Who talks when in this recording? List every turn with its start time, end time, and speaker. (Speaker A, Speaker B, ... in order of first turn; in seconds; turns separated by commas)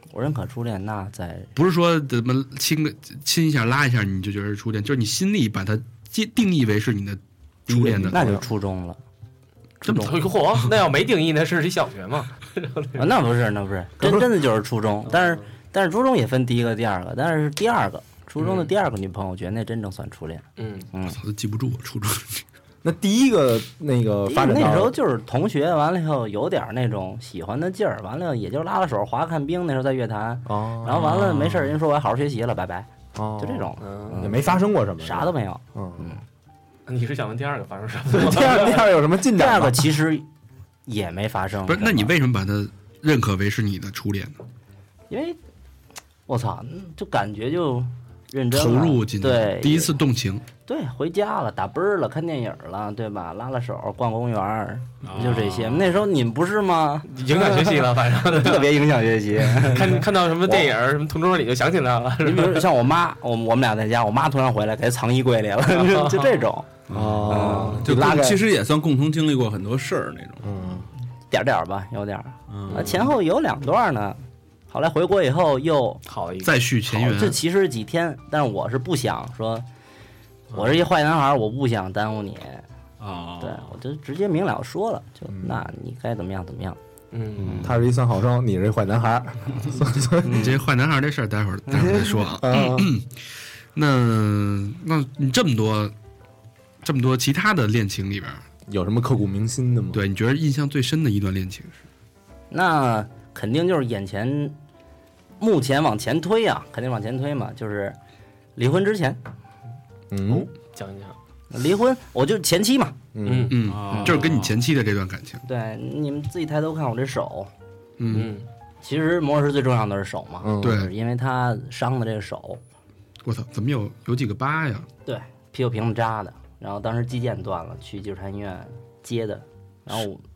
Speaker A: 0.1-1.5, Speaker B: 1.6-8.4, Speaker C: 7.7-8.4, Speaker A: 8.0-9.0, Speaker A: 9.8-10.2, Speaker B: 9.9-10.7, Speaker D: 9.9-13.1, Speaker A: 13.0-21.2, Speaker C: 14.0-14.3, Speaker D: 15.1-15.4, Speaker D: 18.4-18.7, Speaker D: 20.6-20.9, Speaker B: 21.1-22.4, Speaker C: 22.8-24.9, Speaker A: 24.3-36.2, Speaker C: 30.5-31.1, Speaker C: 33.1-36.1, Speaker D: 33.8-34.5, Speaker D: 36.9-38.9, Speaker C: 38.1-39.9, Speaker A: 39.4-40.2, Speaker A: 40.9-42.1, Speaker B: 41.7-44.4, Speaker A: 45.1-45.4, Speaker A: 46.3-49.9, Speaker B: 48.5-50.5, Speaker A: 50.6-60.7, Speaker E: 55.0-56.0, Speaker D: 57.1-58.8, Speaker D: 59.5-62.7, Speaker A: 62.2-66.7, Speaker D: 65.7-66.5, Speaker B: 66.9-67.8, Speaker C: 66.9-68.5, Speaker E: 67.0-70.8, Speaker A: 67.3-67.9, Speaker C: 70.4-70.9, Speaker A: 71.3-76.0, Speaker E: 72.5-73.1, Speaker D: 72.7-73.1, Speaker D: 76.1-76.6, Speaker B: 76.4-77.4, Speaker A: 76.9-79.7, Speaker E: 80.5-80.8, Speaker A: 80.5-82.7, Speaker E: 83.0-83.7, Speaker A: 83.4-86.8, Speaker C: 85.3-85.7, Speaker D: 87.1-87.7, Speaker C: 87.5-90.6, Speaker B: 90.2-95.9, Speaker C: 92.4-92.9, Speaker B: 96.8-98.4, Speaker C: 98.7-100.0, Speaker B: 99.9-101.8, Speaker A: 102.5-104.6, Speaker A: 105.4-108.0, Speaker A: 108.6-109.2, Speaker C: 110.1-110.5, Speaker D: 110.3-111.2, Speaker A: 111.5-113.0, Speaker C: 113.1-113.5, Speaker D: 113.2-114.1, Speaker B: 113.5-115.4, Speaker E: 113.7-114.6, Speaker A: 115.5-117.5, Speaker B: 118.0-118.4, Speaker D: 118.1-118.5, Speaker A: 118.8-122.6, Speaker C: 120.4-120.8, Speaker B: 120.6-120.9, Speaker B: 123.2-124.9, Speaker A: 125.0-130.2